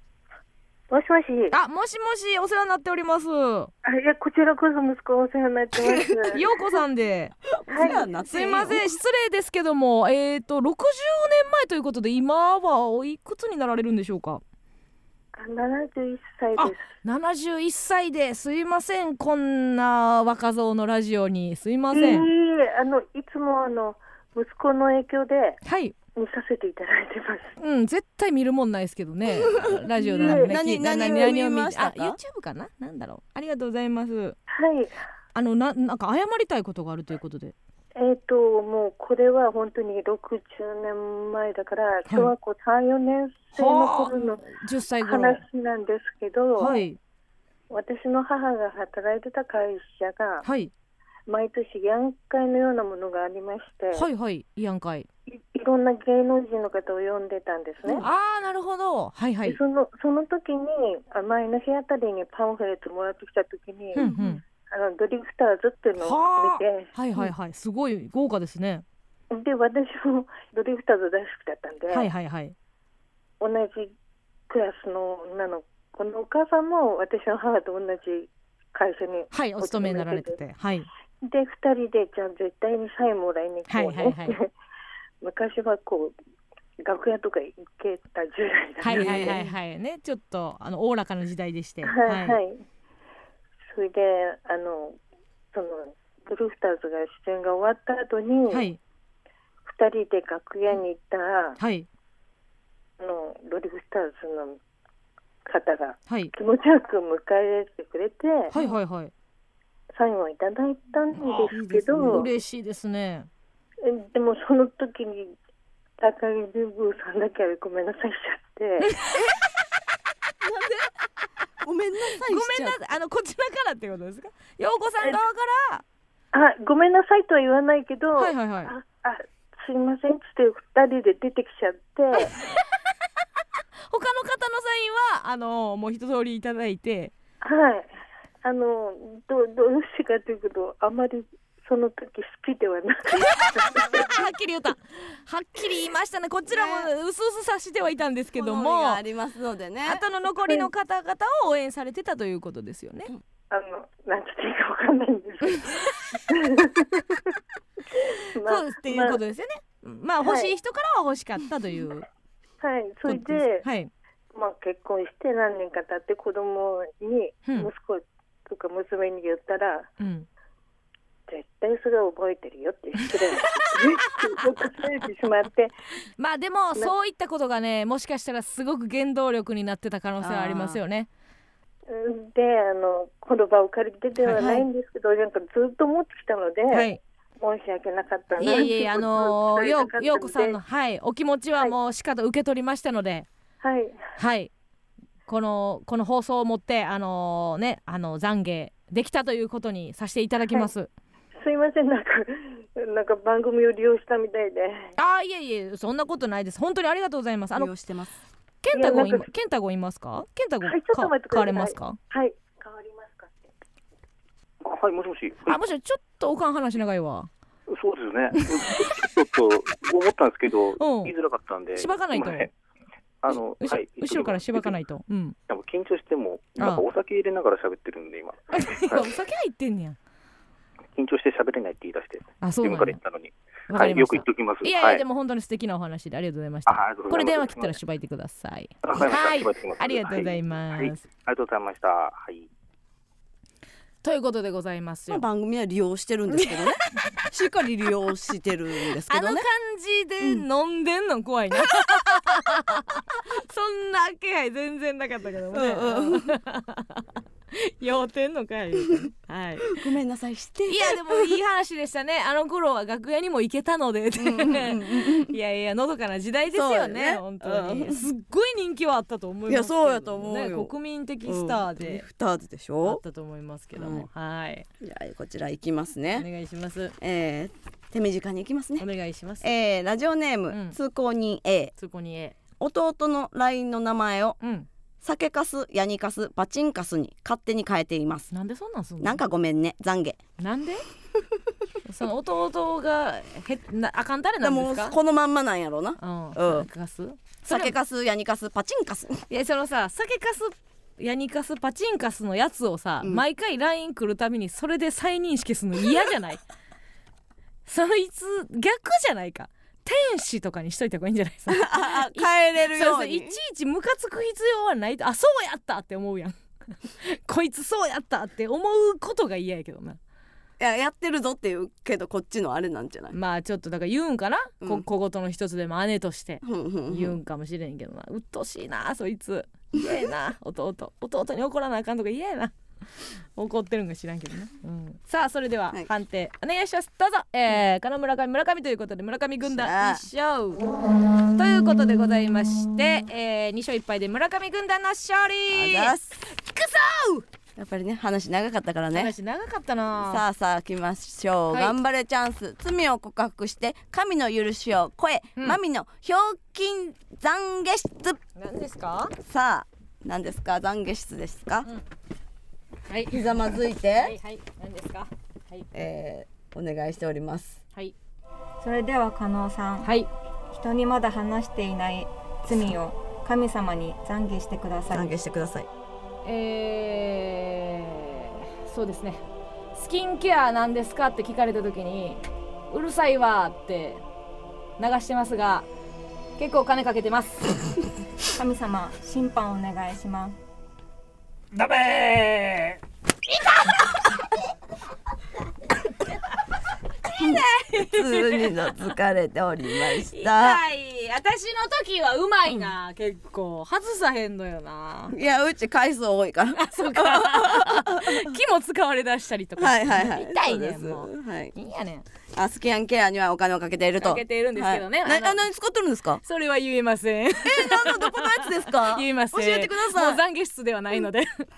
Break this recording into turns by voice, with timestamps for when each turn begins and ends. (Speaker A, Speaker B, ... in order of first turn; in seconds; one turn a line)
Speaker A: 0.9-1.5
Speaker B: 1.5-3.7
Speaker A: 3.8-6.4
Speaker C: 5.8-6.3
Speaker B: 6.3-14.4
Speaker C: 7.5-8.9
Speaker A: 7.7-8.0
Speaker A: 15.3-16.9
Speaker B: 16.6-22.3
Speaker A: 21.9-25.6
Speaker B: 25.6-25.9
Speaker A: 26.2-27.5
Speaker B: 27.6-34.4
Speaker C: 29.6-32.2
Speaker A: 30.1-31.3
Speaker A: 34.5-34.9
Speaker B: 35.3-37.5
Speaker A: 38.0-44.5
Speaker B: 42.1-42.3
Speaker B: 43.5-45.4
Speaker A: 45.0-46.8
Speaker B: 46.6-47.0
Speaker A: 47.7-50.5
Speaker B: 50.4-50.7
Speaker A: 51.3-54.1
Speaker B: 53.9-55.1
Speaker A: 55.3-58.1
Speaker B: 58.0-59.6
Speaker A: 59.5-64.1
Speaker B: 64.0-64.4
Speaker C: 64.0-64.4
Speaker A: 64.7-66.9
Speaker B: 66.0-68.8
Speaker A: 69.3-72.1
Speaker B: 71.9-72.5
Speaker A: 73.4-73.9
Speaker A: 74.5-80.4
Speaker B: 79.3-80.9
Speaker A: 81.2-84.5
Speaker B: 83.7-84.4
Speaker A: 85.2-86.2
Speaker A: 86.8-89.5
Speaker B: 88.8-92.4
Speaker C: 88.9-89.4
Speaker A: 91.8-92.6
Speaker A: 93.7-95.0
Speaker A: 95.5-98.7
Speaker B: 98.5-98.8
Speaker A: 99.7-101.6
Speaker B: 101.6-101.9
Speaker A: 103.0-104.6
Speaker A: 105.5-108.5
Speaker B: 106.1-106.3
Speaker B: 108.5-109.1
Speaker A: 110.0-112.3
Speaker B: 111.2-113.3
Speaker C: 111.2-112.2
Speaker A: 113.8-115.3
Speaker A: 116.0-119.0
Speaker B: 118.8-119.3
Speaker C: 120.4-120.9
Speaker C: 121.6-122.8
Speaker B: 122.2-125.8
Speaker A: 126.3-132.4
Speaker B: 128.2-128.7
Speaker B: 132.2-132.6
Speaker B: 133.9-137.1
Speaker A: 137.4-137.9
Speaker A: 138.4-144.2
Speaker B: 143.2-149.0
Speaker C: 146.5-146.9
Speaker C: 148.4-150.0
Speaker B: 149.8-153.1
Speaker A: 153.5-157.2
Speaker A: 157.9-159.2
Speaker B: 158.4-162.1
Speaker A: 160.2-160.5
Speaker A: 162.6-163.7
Speaker B: 163.1-163.9
Speaker A: 164.3-169.9
Speaker B: 170.0-170.3
Speaker A: 171.3-175.7
Speaker B: 173.1-174.8
Speaker B: 176.2-181.1
Speaker C: 180.2-180.8
Speaker A: 181.9-186.9
Speaker B: 184.2-184.4
Speaker C: 184.4-184.7
Speaker B: 186.7-187.0
Speaker A: 187.4-190.6
Speaker B: 188.4-193.3
Speaker A: 193.6-194.0
Speaker B: 194.2-194.5
Speaker B: 195.3-200.9
Speaker A: 201.4-204.9
Speaker B: 205.0-207.7
Speaker C: 207.5-208.1
Speaker B: 208.6-212.0
Speaker A: 208.7-209.3
Speaker A: 210.6-213.4
Speaker D: 214.6-215.6
Speaker B: 215.5-217.3
Speaker D: 217.7-222.5
Speaker B: 218.4-218.8
Speaker B: 220.8-221.1
Speaker B: 221.7-222.5
Speaker D: 223.2-224.8
Speaker B: 223.3-225.4
Speaker D: 225.5-229.1
Speaker B: 226.6-226.8
Speaker B: 228.5-230.0
Speaker D: 230.9-235.0
Speaker B: 232.4-233.0
Speaker B: 233.7-241.0
Speaker D: 236.7-237.8
Speaker D: 238.8-242.5
Speaker B: 244.0-245.2
Speaker C: 245.1-249.5
Speaker B: 246.3-247.3
Speaker B: 249.0-259.9
Speaker C: 251.7-252.2
Speaker C: 255.5-256.4
Speaker C: 259.6-261.3
Speaker B: 260.7-272.1
Speaker C: 264.2-265.3
Speaker C: 266.5-268.0
Speaker C: 269.5-270.7
Speaker C: 271.3-273.0
Speaker B: 272.8-274.7
Speaker C: 273.8-274.1
Speaker C: 274.8-276.3
Speaker B: 276.1-277.0
Speaker C: 277.0-278.9
Speaker B: 278.8-279.5
Speaker C: 279.4-281.7
Speaker B: 280.5-280.8
Speaker B: 281.8-282.4
Speaker C: 282.6-284.4
Speaker B: 284.4-284.7
Speaker C: 285.0-288.3
Speaker B: 288.3-289.2
Speaker C: 289.0-290.2
Speaker B: 290.4-290.9
Speaker B: 291.9-295.0
Speaker C: 294.4-296.7
Speaker B: 296.0-297.8
Speaker C: 297.4-299.2
Speaker B: 299.3-306.4
Speaker B: 307.7-320.0
Speaker C: 311.5-313.4
Speaker C: 320.6-323.2
Speaker B: 323.1-340.6
Speaker C: 326.4-327.2
Speaker C: 339.4-340.0
Speaker B: 341.3-347.3
Speaker C: 345.5-346.2
Speaker C: 347.6-349.1
Speaker B: 348.9-350.2
Speaker C: 350.0-358.2
Speaker B: 358.4-359.1
Speaker C: 359.2-361.7
Speaker B: 362.9-365.7
Speaker C: 363.1-364.1
Speaker C: 365.7-367.6
Speaker E: 368.6-369.9
Speaker B: 369.8-370.1
Speaker E: 370.5-375.1
Speaker C: 374.9-375.7
Speaker B: 376.2-379.2
Speaker B: 379.7-384.0
Speaker B: 384.8-385.7
Speaker B: 386.4-387.8
Speaker E: 388.4-390.4
Speaker B: 391.6-392.8
Speaker B: 393.3-394.1
Speaker B: 397.1-398.7
Speaker C: 397.2-400.6
Speaker B: 399.7-405.1
Speaker C: 405.1-408.3
Speaker B: 406.6-412.1
Speaker C: 409.6-411.5
Speaker C: 412.4-416.2
Speaker B: 414.0-415.4
Speaker B: 416.2-421.5
Speaker C: 417.4-420.2